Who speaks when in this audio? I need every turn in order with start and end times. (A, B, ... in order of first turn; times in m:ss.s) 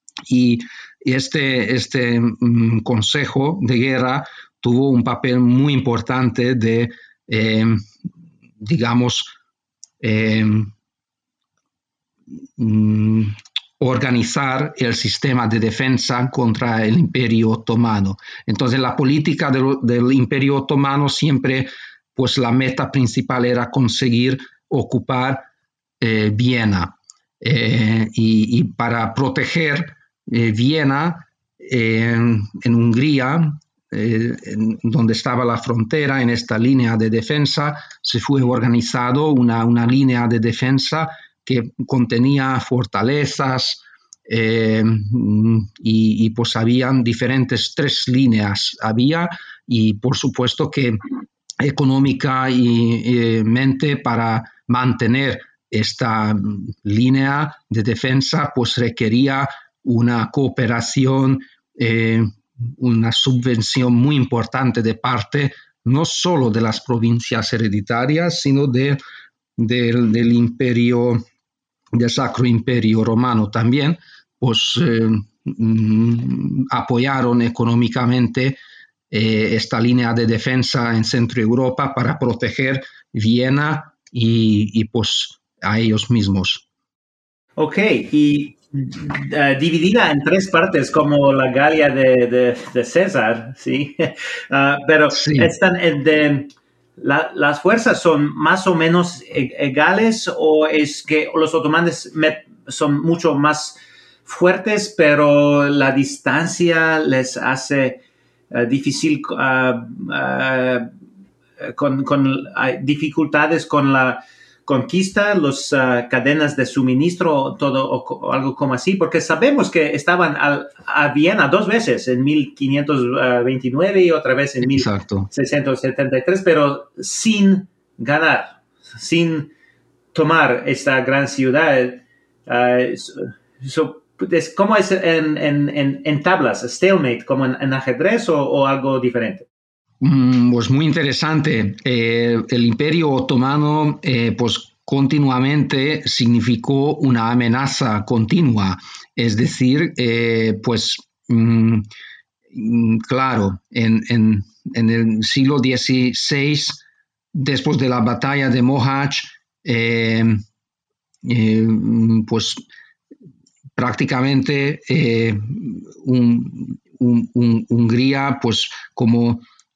0:00.3-0:07.9 A
0:08.6-0:09.3 A
0:10.0-0:10.7 A
0:12.6-0:25.4 A
0:26.0-0:51.0 A
0:51.6-1:09.0 A
1:09.6-1:11.2 A
1:11.9-1:18.6 A
1:19.1-1:26.6 A
1:27.6-1:48.0 B
1:35.1-1:35.5 A
1:48.5-1:50.9 B
1:51.6-2:09.5 B
2:04.6-2:05.3 A
2:10.1-2:19.5 B
2:20.0-2:31.9 A
2:32.5-2:36.8 A
2:37.3-2:40.4 A
2:41.2-2:42.6 A
2:43.8-2:49.4 A